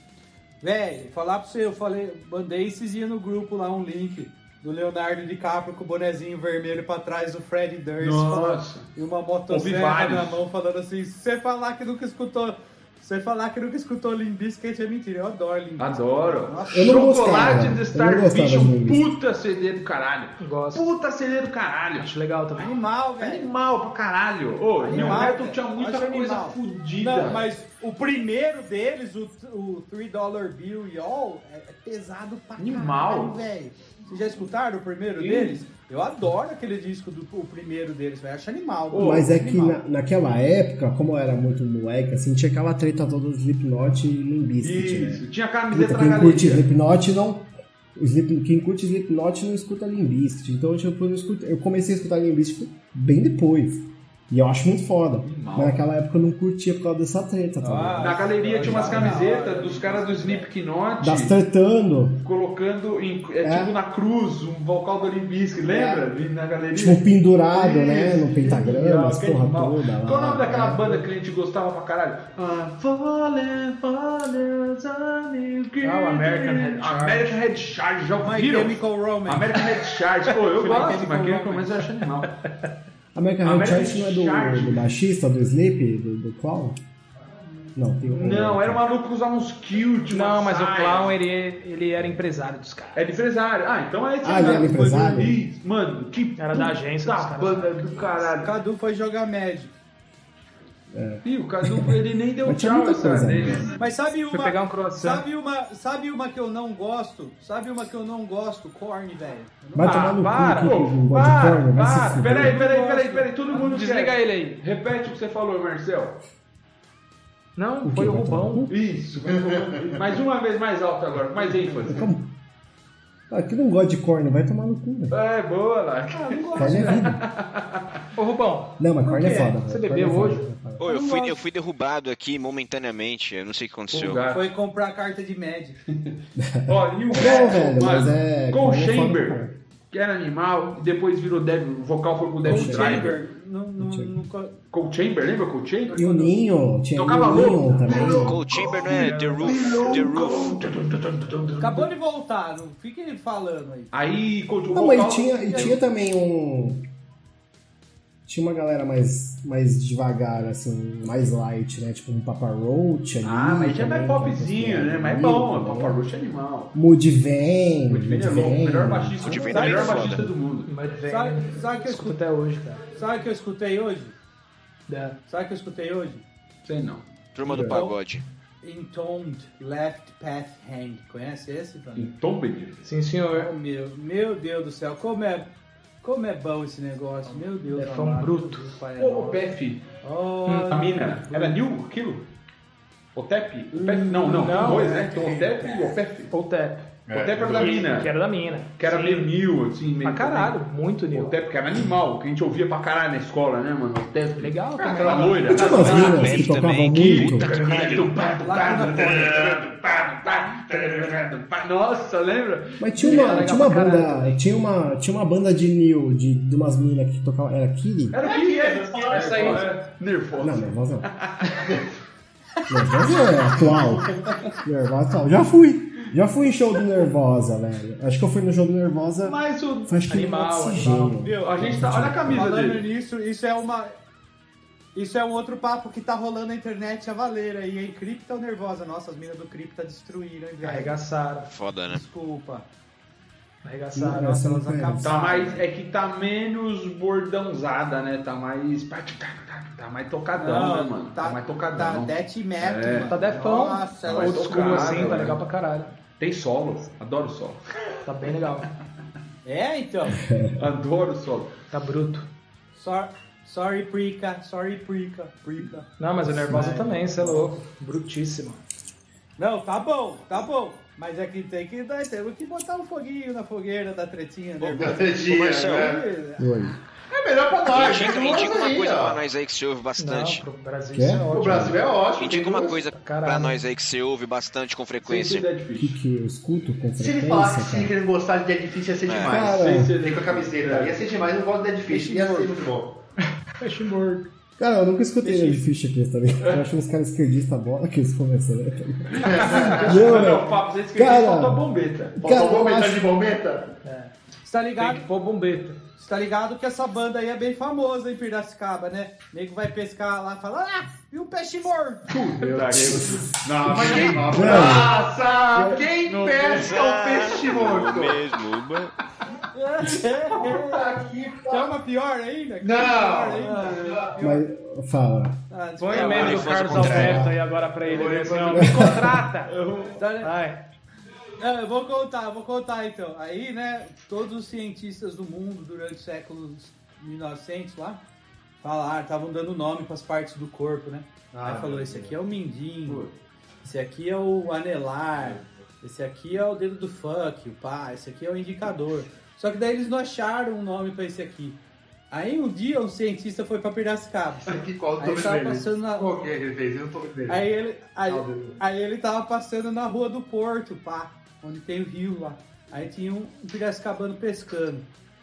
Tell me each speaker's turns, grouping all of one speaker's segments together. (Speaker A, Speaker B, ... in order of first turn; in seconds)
Speaker A: 0.6-17.2, 22.6-23.5, 24.8-39.8, 57.6-60.5, 78.2-79.7, 80.5-81.8, 98.4-99.7, 103.8-110.0, 112.4-113.3, 126.1-126.9, 129.0-129.5, 130.9-131.4, 134.2-135.8, 137.1-137.7, 142.4-144.6, 151.6-153.9, 169.5-169.9, 171.1-172.2, 172.8-174.1, 175.2-176.2, 177.5-177.9, 178.6-182.1, 183.3-185.5, 186.0-191.6, 193.7-195.4, 208.2-209.5, 230.8-231.7, 232.3-233.9, 234.9-240.9, 241.9-242.7, 244.2-245.6, 250.3-255.2, 259.4-260.2, 262.7-265.9, 266.4-267.0, 269.4-276.6, 304.4-305.0, 305.9-312.2, 319.5-320.9, 321.5-324.4, 325.5-327.2, 329.9-330.3, 331.4-338.0, 338.6-343.1, 343.6-351.6, 352.1-356.1, 357.3-364.9
Speaker B: 8.0-8.9, 9.5-10.4, 15.8-22.1, 23.2-27.4, 32.6-33.5, 35.2-35.6, 38.9-39.3, 44.6-46.7, 55.2-55.8, 58.0-61.4, 62.2-82.3, 83.4-84.9, 88.0-91.2, 92.9-98.5, 101.2-103.8, 110.5-116.2, 118.7-122.1, 125.1-128.0, 133.9-134.5, 136.7-143.2, 144.7-146.3, 146.9-151.9, 153.9-155.8, 163.2-166.7, 167.9-170.7, 176.6-177.0, 181.9-182.8, 189.0-189.8, 190.7-192.3, 193.1-196.3, 197.1-198.1, 198.8-200.6, 201.1-213.7, 218.1-221.7, 229.2-230.0, 231.4-232.9, 245.0-253.1, 254.0-255.4, 256.1-257.6, 260.5-261.6, 285.0-286.0, 289.5-291.1, 296.4-296.7, 299.1-302.2, 312.1-314.8, 316.0-316.7, 323.4-324.1, 329.4-330.0, 342.9-343.1
Speaker C: 16.7-19.1, 38.9-59.2, 61.0-62.3, 63.4-63.7, 65.7-66.0, 66.7-71.1, 83.1-86.8, 87.7-88.8, 94.2-95.4, 100.9-103.8, 109.7-112.6, 117.8-118.7, 121.8-122.3, 123.3-125.2, 126.5-127.2, 128.8-130.9, 136.4-139.6, 142.4-143.2, 143.8-144.2, 145.9-148.4, 154.7-156.8, 158.2-166.0, 166.7-170.3, 177.5-177.8, 205.5-207.5, 212.8-218.2, 220.4-221.1, 222.7-232.7, 243.9-245.2, 260.2-260.7, 266.2-267.5, 276.4-276.8, 280.9-281.8, 285.7-287.9, 289.2-289.9, 294.6-301.6, 302.2-303.1, 312.5-314.9, 315.5-315.9, 324.2-325.4, 326.8-327.4, 328.5-329.1
Speaker D: 20.4-20.9, 21.9-22.7, 75.8-77.4, 82.3-82.7, 90.1-93.2, 96.4-98.1, 104.2-105.2, 109.8-110.8, 111.8-112.2, 113.5-114.6, 117.5-118.7, 128.2-130.4, 170.6-172.9, 174.9-175.2, 182.8-183.5, 187.7-188.7, 190.5-190.8, 194.1-195.1, 196.3-199.3, 200.0-201.3, 204.4-205.7, 213.0-214.3, 219.1-219.8, 230.1-231.1, 240.6-241.5, 243.6-244.4, 253.1-255.9, 258.0-258.7, 261.7-262.3, 266.0-268.6, 280.0-281.8, 282.8-283.6, 291.9-292.5, 293.6-294.3, 303.8-304.1, 304.8-305.8, 325.8-329.5, 330.2-330.6
Speaker E: 119.3-119.9, 149.7-150.0, 197.1-197.9, 204.8-206.5, 207.4-211.2, 218.2-219.7, 274.6-276.0, 277.1-279.2, 281.3-282.8, 287.0-293.0, 299.2-300.1, 302.2-303.7, 312.6-318.2, 320.3-321.8, 322.6-324.2, 327.8-329.2, 341.3-342.1, 354.5-357.5, 358.1-358.6
Speaker F: 130.8-134.2, 148.0-150.6, 169.2-170.3, 177.3-178.2, 205.7-208.0, 241.5-242.0, 275.2-276.0, 277.7-280.4, 282.2-285.5, 289.1-289.4, 316.5-318.9, 326.0-327.2